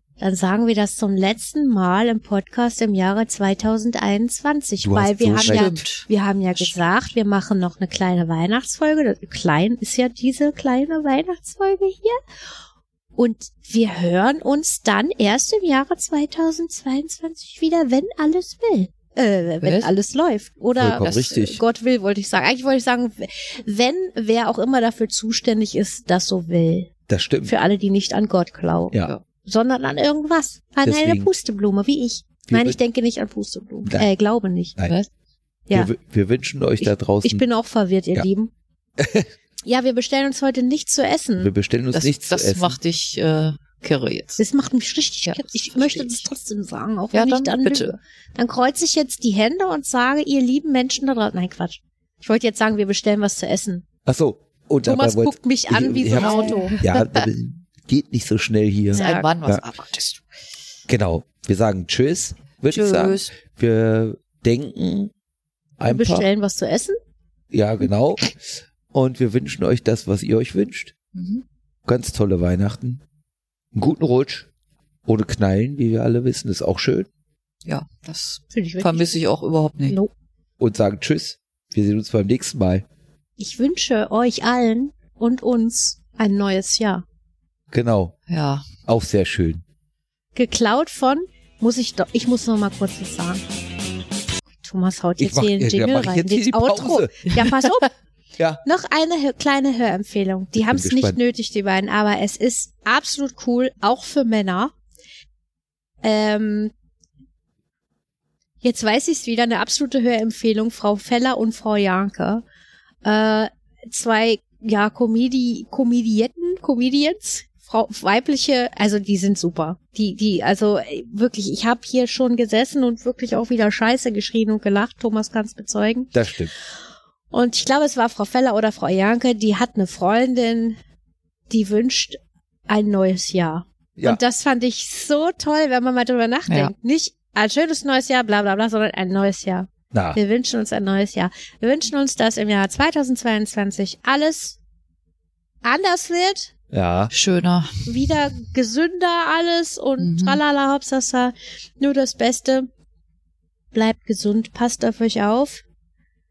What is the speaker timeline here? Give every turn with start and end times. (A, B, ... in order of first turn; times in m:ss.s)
0:00.2-0:12.2 A
0:04.8-0:05.7 B
0:05.4-0:06.8 C
0:13.2-0:26.9 A
0:19.6-0:19.9 C
0:20.8-0:21.6 B
0:21.0-0:21.3 C
0:27.1-0:27.5 B
0:27.4-0:34.8 A
0:30.8-0:31.3 B
0:32.5-0:32.8 B
0:35.7-0:37.4 B
0:36.8-0:38.5 A
0:39.0-0:39.3 B
0:39.6-0:41.5 A
0:41.4-0:42.8 B
0:41.9-0:44.4 C
0:44.4-0:53.8 A
0:45.2-0:46.2 C
0:47.1-0:48.0 C
0:54.0-0:59.6 B
0:54.8-0:56.8 A
0:56.2-0:57.2 C
0:58.9-0:59.3 A
0:58.9-1:00.2 C
1:00.9-1:05.1 B
1:02.7-1:03.3 C
1:05.8-1:06.3 B
1:05.8-1:07.0 A
1:07.5-1:10.9 B
1:11.1-1:11.4 C
1:11.8-1:13.0 B
1:13.7-1:14.5 B
1:15.0-1:17.1 B
1:17.6-1:20.0 C
1:18.5-1:19.2 A
1:19.8-1:20.1 A
1:20.6-1:22.8 B
1:23.4-1:27.0 A
1:27.7-1:28.2 B
1:28.3-1:28.6 C
1:28.8-1:29.6 B
1:30.3-1:33.4 A
1:34.6-1:37.9 A
1:35.2-1:37.3 B
1:38.6-1:44.7 A
1:40.6-1:41.2 B
1:46.0-1:46.7 A
1:48.6-1:52.4 A
1:53.0-2:06.1 A
2:06.1-2:06.5 B
2:07.3-2:10.8 A
2:11.5-2:24.6 A
2:19.9-2:20.2 B
2:25.6-2:26.5 A
2:26.7-2:27.1 B
2:27.1-2:27.8 C
2:27.8-2:32.7 A
2:30.0-2:30.4 C
2:33.7-2:35.6 A